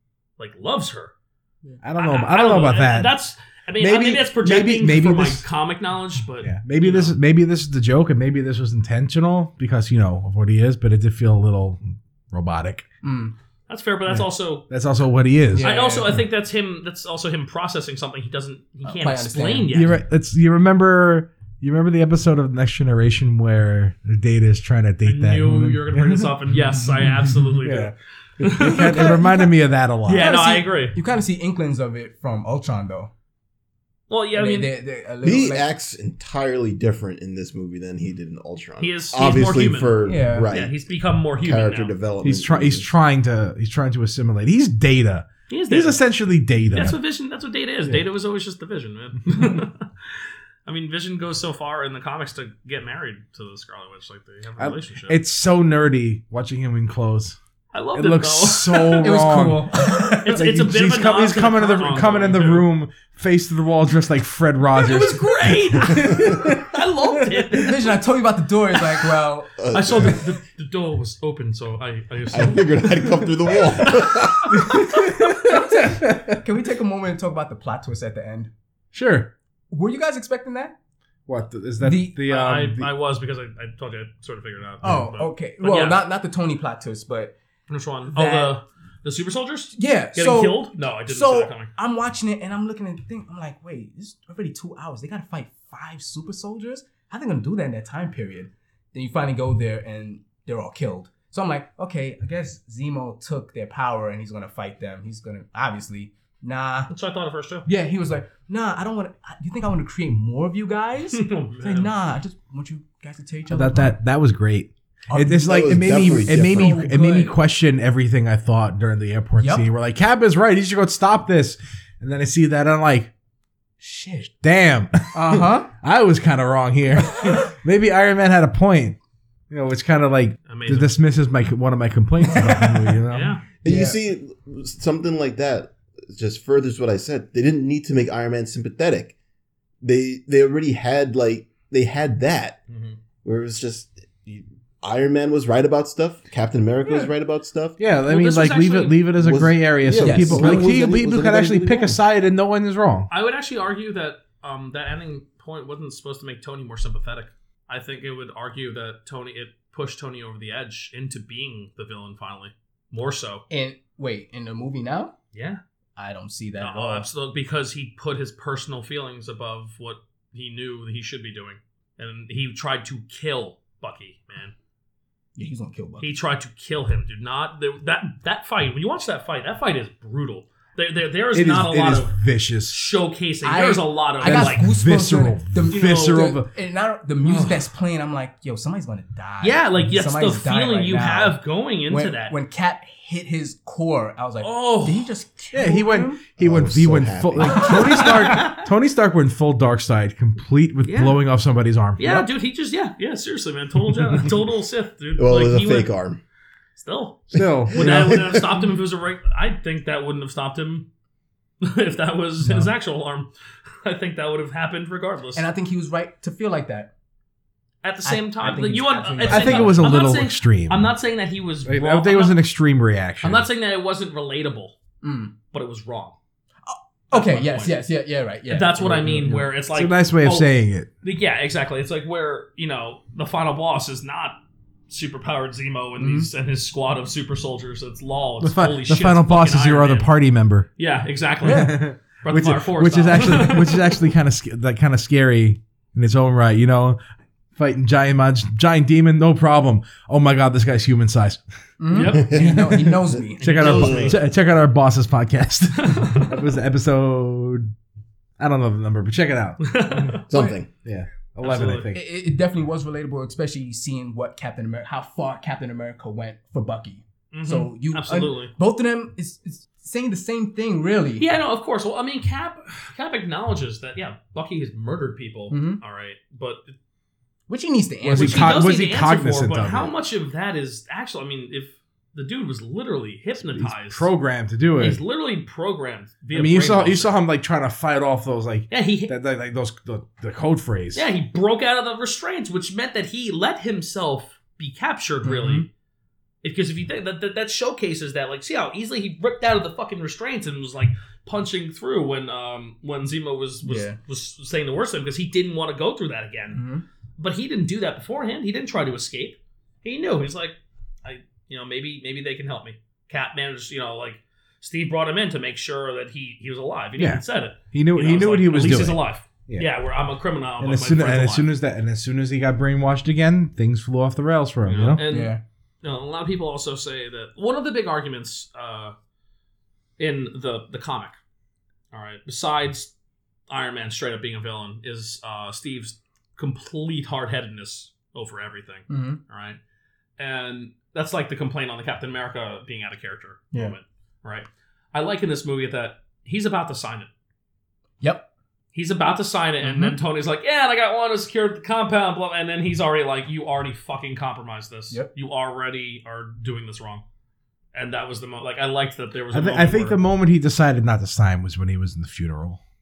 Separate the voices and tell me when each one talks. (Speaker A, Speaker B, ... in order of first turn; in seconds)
Speaker A: 0.4-1.1, 2.0-7.2, 13.7-14.7, 15.6-20.0, 25.0-29.2, 30.1-31.0, 34.1-34.7, 38.8-42.0, 45.5-46.0, 46.7-55.2, 57.7-59.1, 60.2-62.7, 64.8-68.0, 69.7-75.3, 82.3-86.0, 87.7-91.7, 106.9-107.7, 111.1-111.9, 130.5-131.0, 133.1-133.4, 142.7-143.0, 148.0-149.1, 153.1-163.4, 165.3-165.6, 166.6-174.5, 176.0-182.1, 182.7-184.7, 185.7-186.3, 187.2-187.7, 189.4-192.3, 194.4-195.1, 197.7-198.7, 200.8-201.2, 202.0-205.9, 206.8-210.9, 211.6-213.3, 213.8-215.5, 217.8-222.4, 223.2-224.8, 225.5-226.2, 227.1-227.8, 228.5-230.5, 231.0-240.1, 240.8-243.9, 251.9-252.5, 253.4-254.2, 255.8-256.4, 259.6-260.2, 261.4-261.9, 267.3-268.5, 271.2-276.8, 278.1-284.1, 284.8-287.2, 288.7-289.1, 290.9-295.7, 296.4-306.6, 307.2-321.5, 324.7-328.9, 330.0-331.2, 331.9-332.9, 333.5-339.6, 340.2-347.1, 348.7-357.0, 357.7-360.0
Speaker B: 1.8-3.1, 3.8-5.5, 6.4-12.9, 14.1-15.7, 19.7-26.4, 27.6-30.4, 42.2-47.0, 54.6-57.4, 57.9-59.7, 60.3-66.7, 74.6-76.4, 78.9-79.3, 81.3-82.9, 113.5-123.1, 124.3-129.0, 129.5-133.4, 147.8-153.1, 181.3-182.8, 184.2-186.5, 195.5-202.3, 204.0-204.2, 207.3-208.4, 219.3-220.9, 221.7-223.5, 229.1-230.9, 238.4-240.7, 241.4-247.0, 247.6-251.4, 253.4-257.7, 258.4-260.2, 260.8-262.0, 278.1-279.9, 283.4-285.0, 286.3-291.1, 317.0-319.7, 320.6-325.0, 359.3-362.6
Speaker C: 13.0-13.3, 15.5-16.2, 18.8-19.7, 28.6-29.5, 30.1-33.1, 34.3-35.7, 40.0-40.5, 59.0-60.5, 67.5-69.6, 75.4-78.5, 79.7-80.8, 81.8-82.2, 84.8-87.3, 88.1-88.6, 89.7-106.9, 107.7-114.0, 115.1-117.3, 119.4-119.7, 123.8-124.3, 125.1-125.7, 132.2-132.9, 133.6-134.0, 149.9-150.8, 163.5-165.2, 166.0-167.1, 175.4-176.1, 183.4-196.2, 197.5-198.1, 215.3-216.9, 218.1-219.8, 225.0-225.3, 226.7-229.4, 236.0-236.3, 251.8-253.9, 260.3-260.6, 261.9-271.3, 275.5-275.8, 277.5-278.6, 295.2-295.7, 303.6-304.0, 306.5-306.8, 325.0-325.4, 338.9-339.2, 348.0-348.3, 349.6-350.0
Speaker D: 35.2-40.8, 41.4-42.9, 69.6-70.2, 72.3-74.7, 115.4-116.8, 133.6-139.2, 139.8-142.6, 143.2-147.8, 149.2-151.9, 196.4-198.0, 205.2-206.2, 207.3-208.7, 252.0-254.2, 260.3-260.7